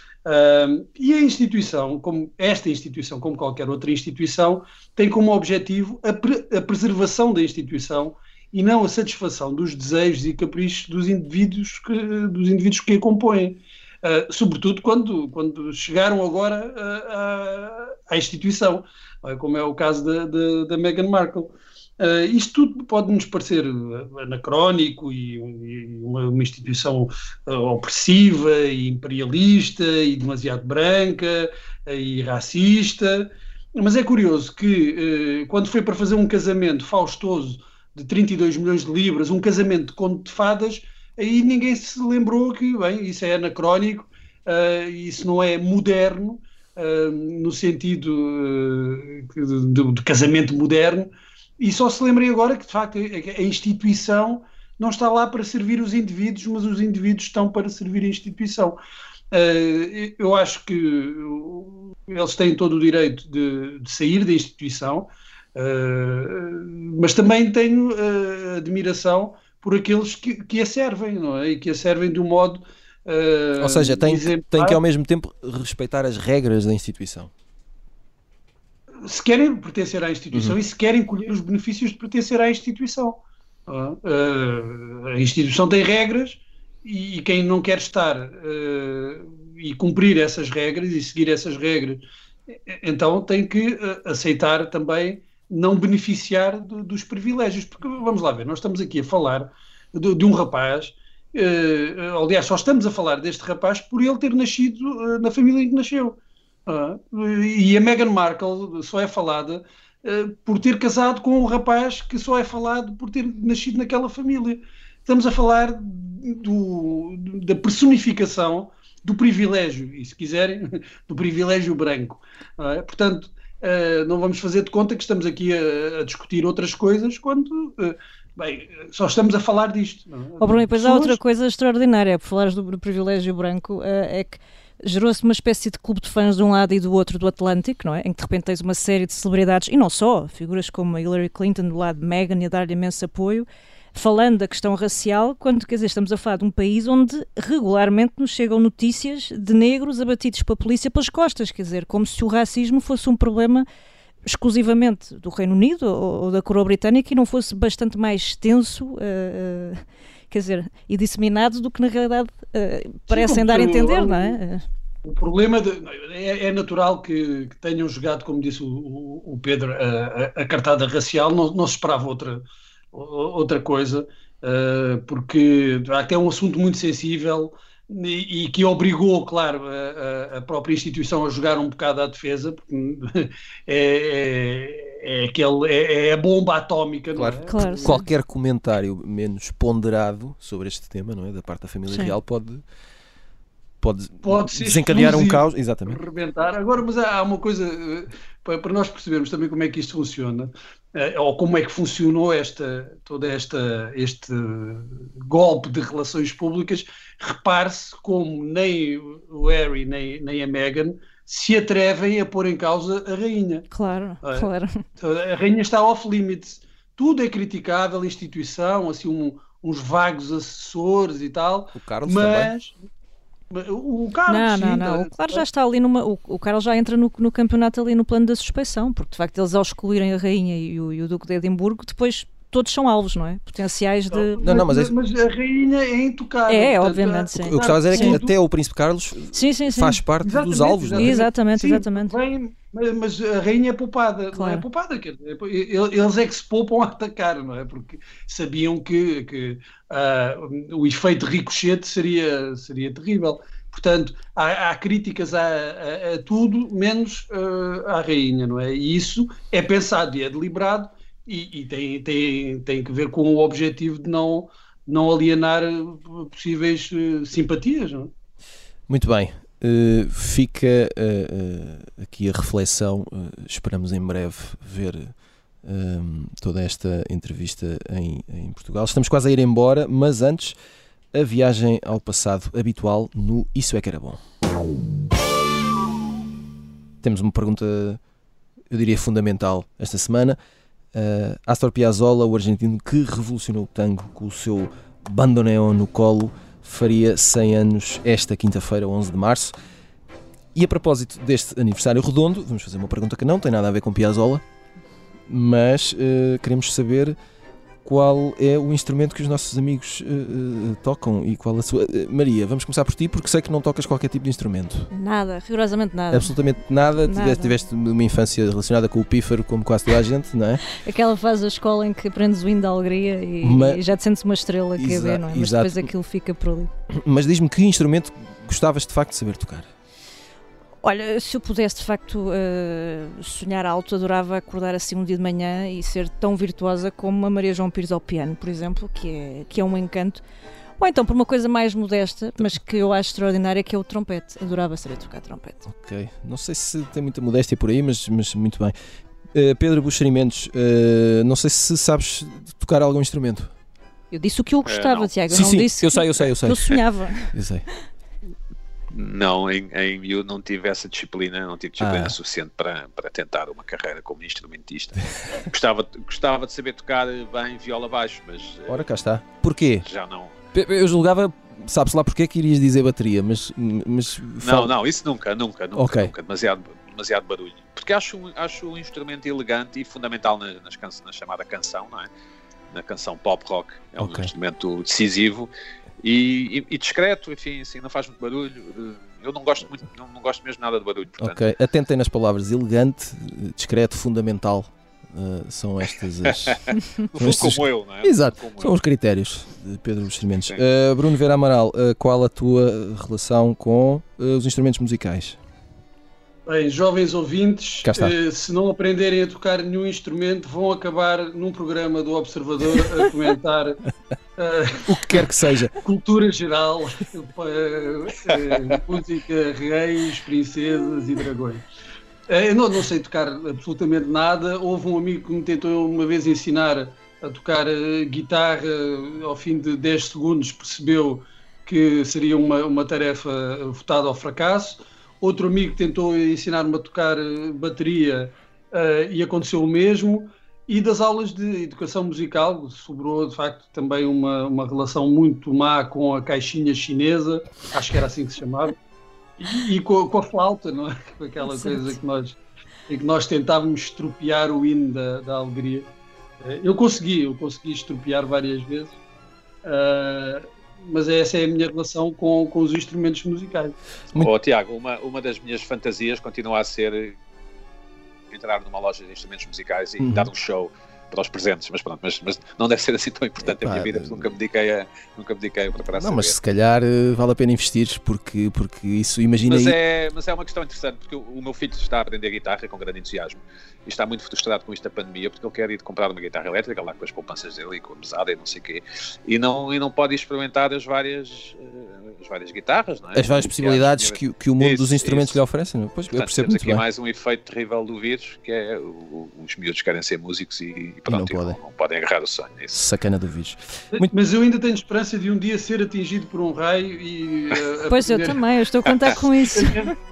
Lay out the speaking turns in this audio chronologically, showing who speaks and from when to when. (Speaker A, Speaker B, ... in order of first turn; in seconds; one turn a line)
Speaker A: 0.3-58.8
Speaker A: 59.3-74.8
Speaker B: 73.6-77.3
Speaker A: 79.0-131.2
Speaker B: 80.3-80.6
Speaker C: 130.4-153.7
Speaker C: 154.2-164.6
Speaker A: 163.1-164.4
Speaker A: 165.1-188.0
Speaker B: 187.2-192.6
Speaker C: 187.5-188.1
Speaker C: 191.9-192.2
Speaker B: 193.8-196.0
Speaker A: 194.2-213.7
Speaker C: 213.7-214.8
Speaker A: 215.0-222.8
Speaker B: 221.8-222.5
Speaker A: 223.5-225.4
Speaker C: 224.3-234.4
Speaker A: 234.1-238.3
Speaker B: 234.4-234.9
Speaker C: 236.5-238.2
Speaker B: 237.4-241.2
Speaker C: 239.3-240.0
Speaker A: 240.2-268.1
Speaker C: 240.9-242.2
Speaker C: 244.3-244.7
Speaker B: 268.9-280.6
Speaker B: 281.1-284.2
Speaker B: 287.0-288.0
Speaker B: 288.7-290.4
Speaker B: 290.9-299.5
Speaker B: 300.6-304.4
Speaker B: 305.3-307.2
Speaker B: 307.9-314.9
Speaker C: 314.9-316.4
Speaker B: 316.1-320.6
Speaker C: 317.0-317.6
Speaker C: 320.7-326.7
Speaker B: 323.4-323.8
Speaker B: 324.8-325.9
Speaker B: 326.9-329.7
Speaker C: 330.8-340.2
Speaker C: 340.8-345.7
Speaker B: 345.7-348.8
Speaker B: 349.3-353.5
Speaker C: 354.1-357.4
Speaker D: 354.7-355.1
Speaker B: 355.3-356.8
Speaker B: 357.3-357.6
Speaker D: 358.9-368.9
Speaker B: 361.8-362.2
Speaker B: 368.7-369.9
Speaker D: 369.8-370.4
Speaker B: 370.5-374.7
Speaker D: 374.4-382.1
Speaker B: 375.8-376.1
Speaker D: 382.7-385.5
Speaker B: 384.0-384.3
Speaker D: 386.0-391.4
Speaker B: 391.2-396.6
Speaker D: 396.5-398.8
Speaker B: 397.1-405.4
Speaker A: 406.5-413.8
Speaker B: 407.8-408.2
Speaker A: 414.4-421.7
Speaker B: 414.9-415.7
Speaker A: 422.3-448.8
Speaker A: 449.4-455.9
Speaker C: 451.4-452.0
Speaker A: 456.4-459.0
Speaker A: 459.6-463.8
Speaker D: 464.1-467.2
Speaker D: 468.3-476.4
Speaker B: 470.0-470.3
Speaker B: 473.4-474.3
Speaker B: 475.9-479.8
Speaker D: 479.5-495.4
Speaker B: 493.1-496.8
Speaker D: 496.1-502.8
Speaker B: 501.1-501.6
Speaker B: 502.7-504.1
Speaker A: 504.0-508.4
Speaker C: 507.9-509.9
Speaker A: 509.5-509.9